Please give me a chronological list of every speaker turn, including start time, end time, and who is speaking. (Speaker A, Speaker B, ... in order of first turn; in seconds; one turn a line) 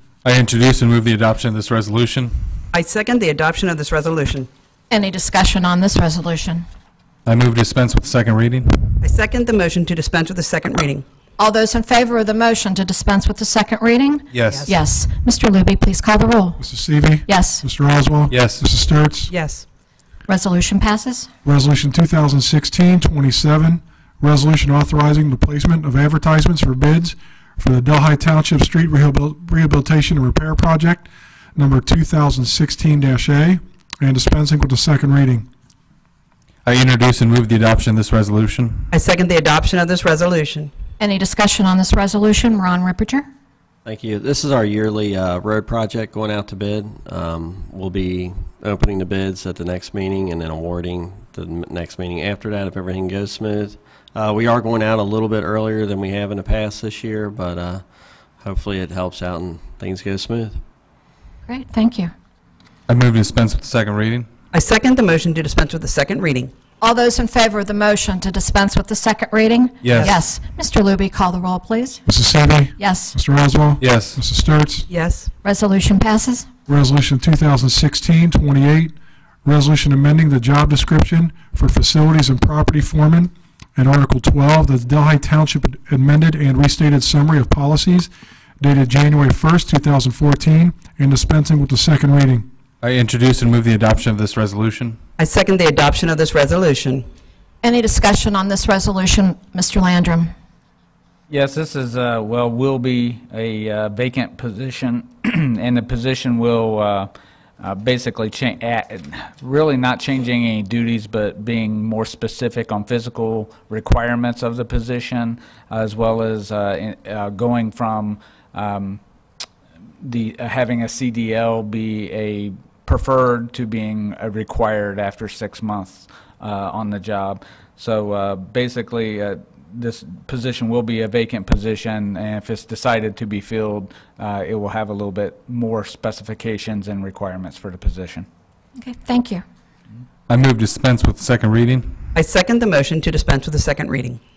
Speaker A: 0.2-2.4
Speaker B: 2.8-4.5
Speaker C: 4.9-6.7
Speaker A: 7.2-9.0
Speaker B: 9.0-11.0
Speaker C: 11.4-16.6
Speaker A: 14.3-14.7
Speaker D: 16.6-19.3
Speaker C: 17.3-17.6
Speaker A: 18.3-18.6
Speaker B: 19.3-19.6
Speaker C: 20.3-21.3
Speaker D: 21.4-35.5
Speaker A: 36.6-38.9
Speaker B: 38.9-40.7
Speaker C: 41.0-43.2
Speaker E: 43.9-57.8
Speaker E: 58.5-60.5
Speaker C: 61.5-62.1
Speaker A: 62.9-64.3
Speaker B: 64.5-66.5
Speaker C: 66.8-72.0
Speaker A: 69.8-70.1
Speaker D: 72.1-74.9
Speaker C: 72.8-73.2
Speaker A: 73.8-74.2
Speaker B: 74.9-75.2
Speaker C: 75.4-76.5
Speaker D: 76.7-78.9
Speaker D: 79.5-92.5
Speaker A: 92.8-95.0
Speaker B: 95.2-97.0
Speaker C: 97.6-100.3
Speaker F: 101.3-119.0
Speaker F: 120.0-138.3
Speaker C: 138.8-139.4
Speaker A: 140.3-142.0
Speaker B: 142.2-144.2